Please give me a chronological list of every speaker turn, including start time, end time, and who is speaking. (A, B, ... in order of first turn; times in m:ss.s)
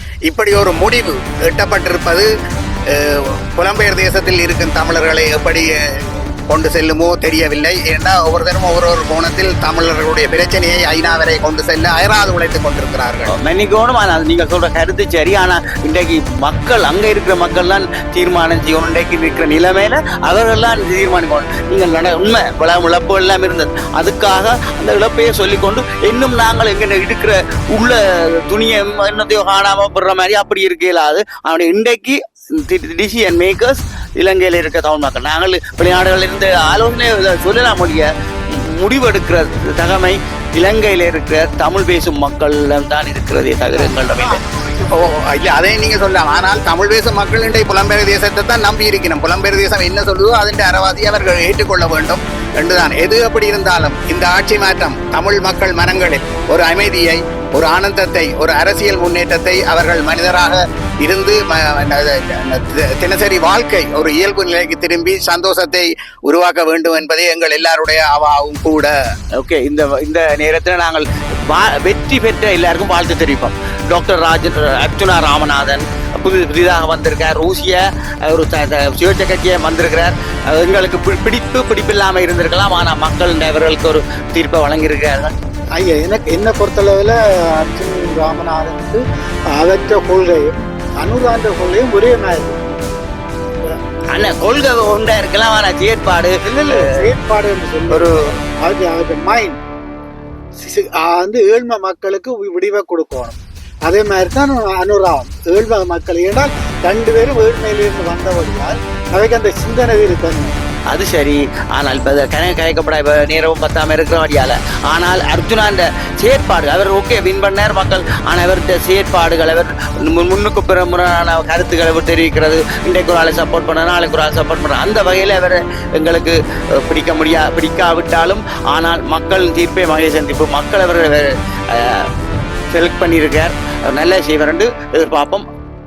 0:00.3-0:02.3 A
0:02.9-0:13.3 A
0:13.3-0:44.4 B
0:43.7-0:45.0 C
0:44.9-1:08.9 A
1:09.4-1:25.3 B
1:25.8-1:29.0 C
1:29.5-1:32.8 C
1:34.1-1:36.9 B
1:36.4-1:39.6 C
1:37.9-1:38.3 B
1:40.6-1:50.5 C
1:50.9-2:12.1 B
2:12.7-2:15.5 B